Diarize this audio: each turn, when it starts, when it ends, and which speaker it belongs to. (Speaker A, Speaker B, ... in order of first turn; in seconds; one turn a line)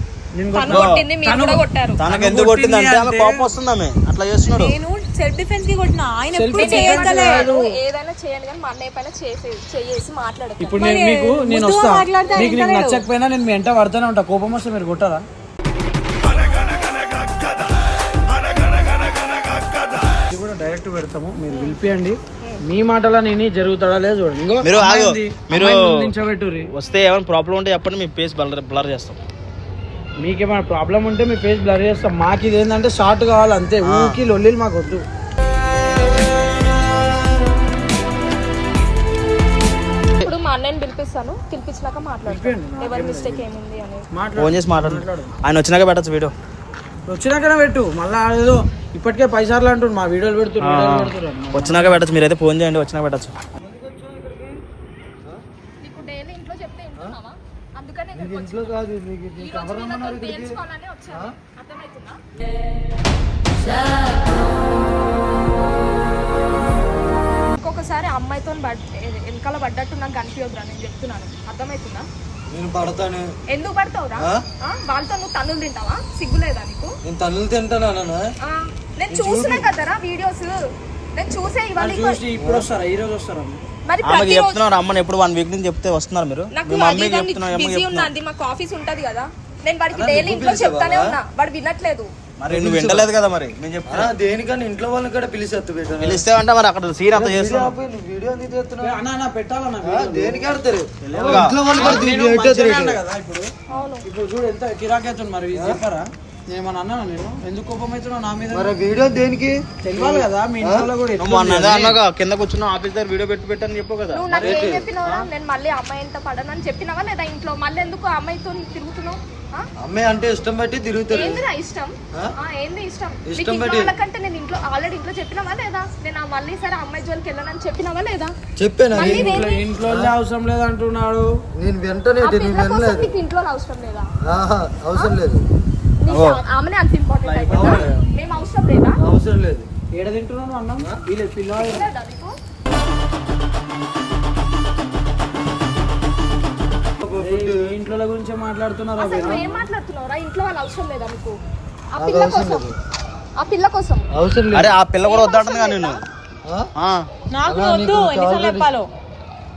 Speaker A: 0.3-3.5
Speaker B: 0.5-2.0
Speaker C: 0.7-1.0
Speaker C: 2.0-4.8
Speaker D: 4.5-7.5
Speaker A: 6.3-7.7
Speaker B: 6.5-10.8
Speaker A: 10.6-15.2
Speaker D: 10.8-13.1
Speaker B: 16.3-16.7
Speaker A: 20.3-26.7
Speaker B: 21.5-21.8
Speaker C: 24.6-26.1
Speaker C: 26.7-29.2
Speaker A: 30.2-35.0
Speaker C: 33.8-34.2
Speaker B: 40.2-44.0
Speaker A: 42.2-43.5
Speaker A: 44.1-45.3
Speaker C: 44.4-46.3
Speaker A: 47.1-52.0
Speaker C: 50.6-53.3
Speaker E: 53.6-54.6
Speaker B: 55.8-58.8
Speaker E: 58.1-60.6
Speaker B: 59.4-62.2
Speaker B: 67.5-72.1
Speaker E: 72.5-73.3
Speaker B: 73.5-76.9
Speaker E: 74.2-74.4
Speaker E: 77.0-78.2
Speaker B: 78.4-80.5
Speaker E: 79.1-79.7
Speaker B: 81.1-82.2
Speaker A: 81.8-83.6
Speaker E: 82.4-82.7
Speaker B: 83.9-84.6
Speaker C: 84.0-88.1
Speaker B: 86.5-92.1
Speaker E: 89.9-91.2
Speaker C: 92.4-94.1
Speaker E: 92.5-93.1
Speaker E: 93.9-96.2
Speaker C: 96.0-97.7
Speaker E: 97.1-99.0
Speaker A: 98.8-100.5
Speaker E: 99.8-103.0
Speaker C: 101.0-101.6
Speaker A: 101.3-103.5
Speaker B: 101.7-102.0
Speaker B: 103.7-104.1
Speaker A: 104.0-108.7
Speaker E: 108.5-110.9
Speaker A: 109.8-112.0
Speaker C: 111.2-114.5
Speaker B: 114.1-119.7
Speaker E: 114.4-115.2
Speaker E: 119.8-121.4
Speaker B: 121.1-128.3
Speaker E: 123.2-123.9
Speaker E: 128.6-130.1
Speaker B: 128.9-129.6
Speaker A: 128.9-131.3
Speaker E: 131.5-133.1
Speaker B: 132.2-134.1
Speaker E: 134.2-135.4
Speaker B: 134.9-135.2
Speaker B: 136.0-139.0
Speaker C: 136.1-136.4
Speaker C: 137.2-138.1
Speaker E: 137.5-137.9
Speaker E: 139.0-139.7
Speaker A: 139.9-141.8
Speaker B: 141.6-142.3
Speaker E: 147.0-147.7
Speaker A: 147.2-149.5
Speaker B: 149.0-151.4
Speaker E: 149.2-149.5
Speaker B: 151.9-152.7
Speaker E: 152.0-152.7
Speaker B: 153.4-154.1
Speaker E: 154.1-154.7
Speaker C: 154.5-156.0
Speaker B: 155.0-156.0
Speaker C: 156.8-157.1
Speaker D: 157.3-158.9
Speaker E: 157.5-158.7